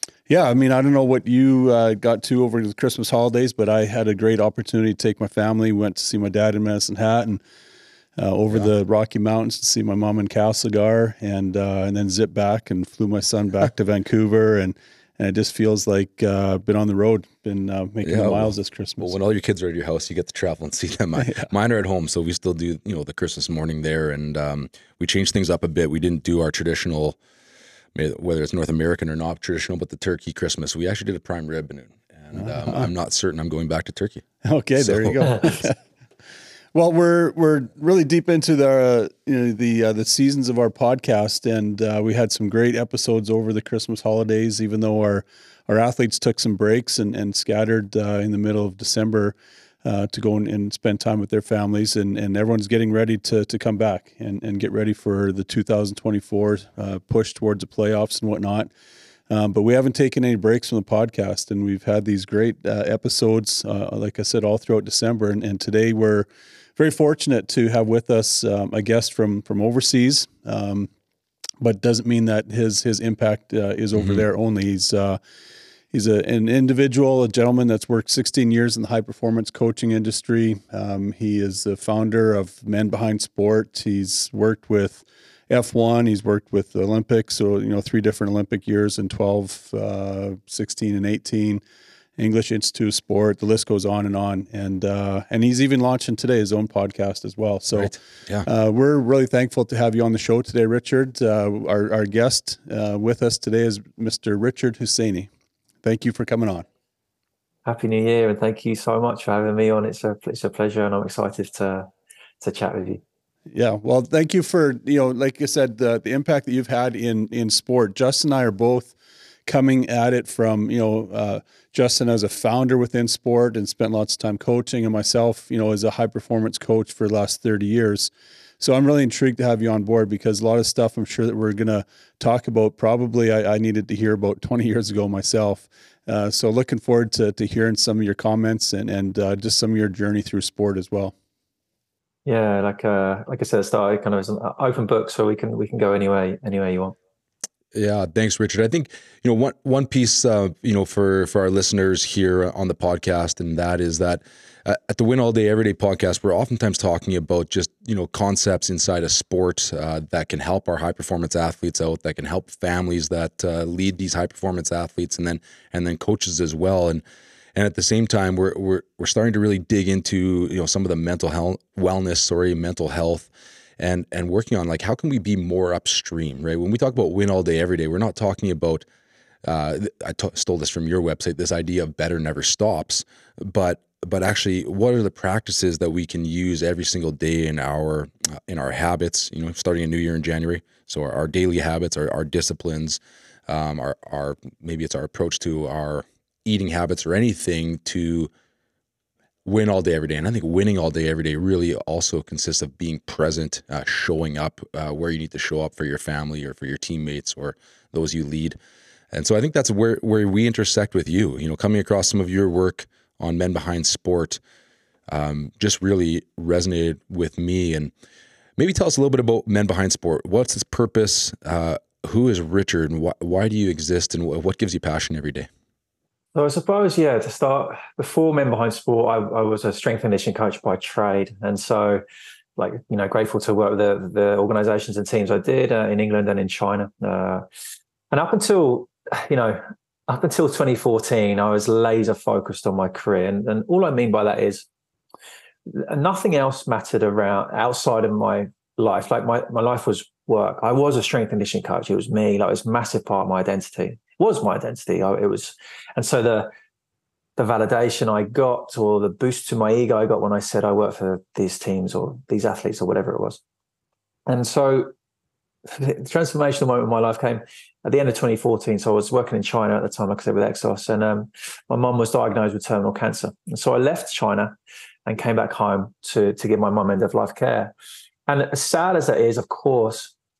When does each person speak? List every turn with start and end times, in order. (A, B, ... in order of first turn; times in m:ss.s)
0:00.3-0:07.4 A
0:08.2-0:19.2 A
0:18.0-0:27.2 B
0:21.2-0:21.5 A
0:28.0-0:34.3 B
0:32.4-0:32.9 A
0:34.4-0:35.8 A
0:34.8-0:35.5 B
0:36.7-0:58.7 A
0:59.3-1:10.9 A
1:11.6-1:15.2 A
1:14.0-1:14.2 B
1:15.9-1:31.6 A
1:32.2-1:45.3 A
1:37.7-1:38.5 B
1:45.8-1:46.7 A
1:47.7-1:51.9 C
1:52.4-1:53.0 C
1:53.5-1:58.9 A
1:59.5-2:21.1 A
2:22.2-2:27.0 C
2:27.7-2:47.0 B
2:47.6-2:58.8 B
2:59.4-3:18.3 B
3:19.4-3:28.6 B
3:29.1-3:34.4 B
3:35.1-3:37.9 B
3:38.6-3:45.5 B
3:46.4-3:52.0 C
3:52.6-3:57.5 C
3:58.1-4:04.7 C
4:05.7-4:16.5 C
4:17.4-4:23.4 C
4:24.3-4:24.9 C
4:25.7-4:37.7 C
4:38.3-4:40.1 C